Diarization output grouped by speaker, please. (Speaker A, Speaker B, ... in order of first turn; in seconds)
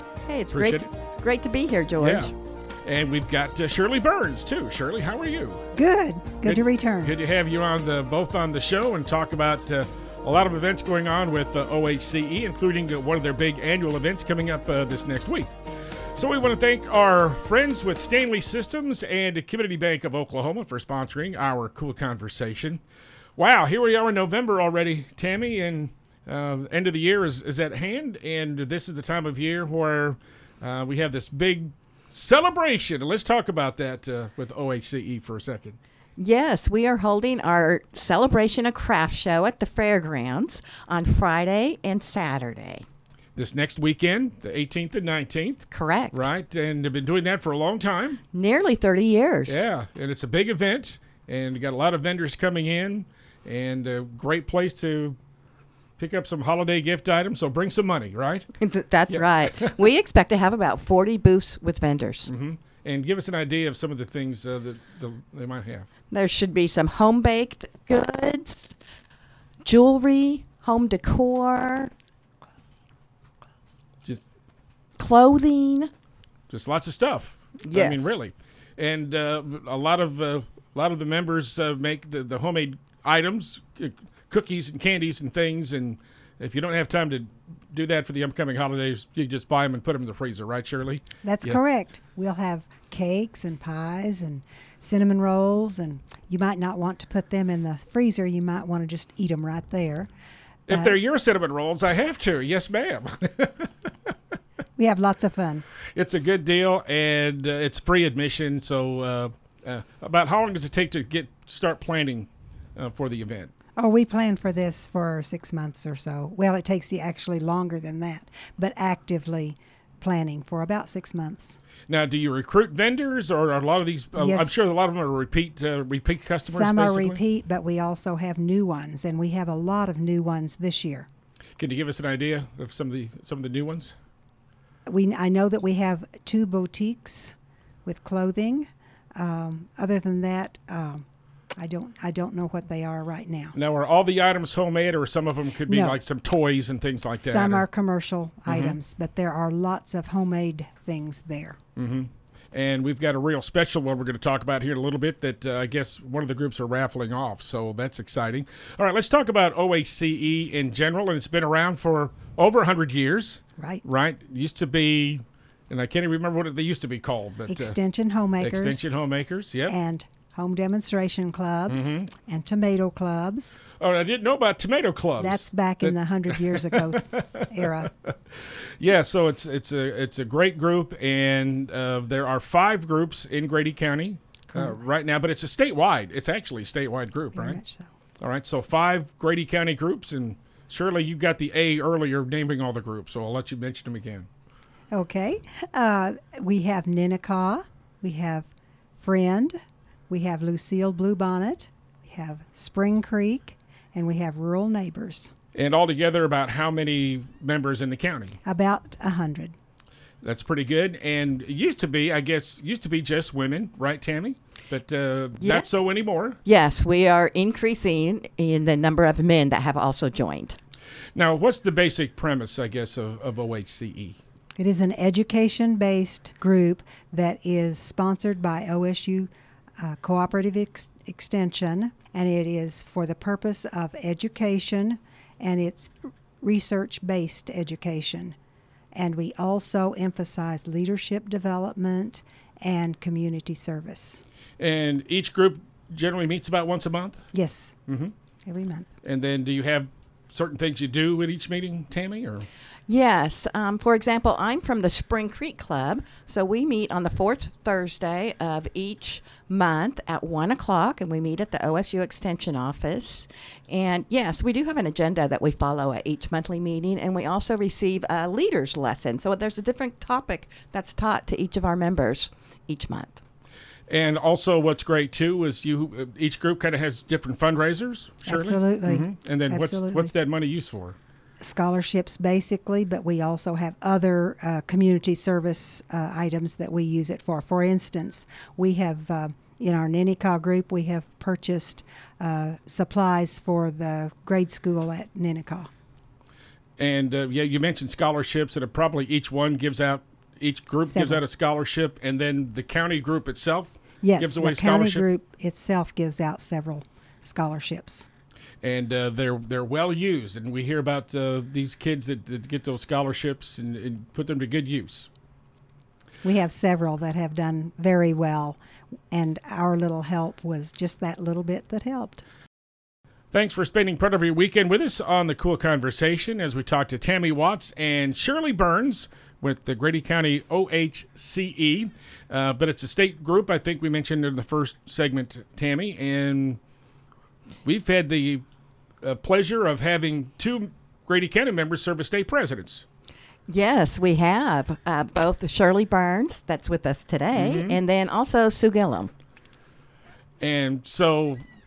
Speaker A: 0.2-2.3, 36.2-42.8, 45.7-46.3, 48.3-49.6, 58.6-62.3, 66.1-68.8, 69.6-71.9, 75.0-75.9, 77.6-78.1, 215.4-215.7, 216.4-220.6, 252.9-273.2, 343.5-349.1
Speaker B: 0.5-0.9, 2.0-2.3, 2.8-5.6, 6.4-15.5, 16.1-22.8, 23.4-35.8, 43.4-48.2, 49.5-55.2, 56.0-58.5, 59.1-59.7, 62.3-65.9, 76.5-91.6, 100.7-103.9, 105.9-113.5, 121.9-127.2, 131.6-133.9, 143.5-147.6, 148.5-148.8, 151.8-167.8, 168.4-169.7, 171.7-172.1, 173.8-187.6, 188.2-194.3, 205.5-208.4, 210.2-216.4, 221.1-224.2, 244.6-247.2, 247.9-248.1, 249.0-252.5, 273.9-281.0, 296.8-305.1, 308.6-315.1, 323.3-336.6, 337.6-338.4, 339.0-342.8, 347.3-347.8, 350.4-351.4
Speaker C: 5.7-7.1, 91.2-100.1, 100.7-100.9, 104.8-105.6, 113.8-121.6, 124.2-124.7, 126.5-131.1, 134.9-141.1, 141.6-143.5, 145.7-146.0, 147.1-151.6, 163.6-163.8, 167.5-168.8, 169.7-173.6, 175.2-177.9, 184.5-184.8, 187.3-187.9, 194.9-199.6, 200.1-205.3, 208.4-209.5, 224.6-238.3, 238.9-244.2, 247.3-247.8, 248.4-248.9, 278.2-280.1, 281.4-295.7, 300.9-301.2, 304.0-308.1, 316.2-322.2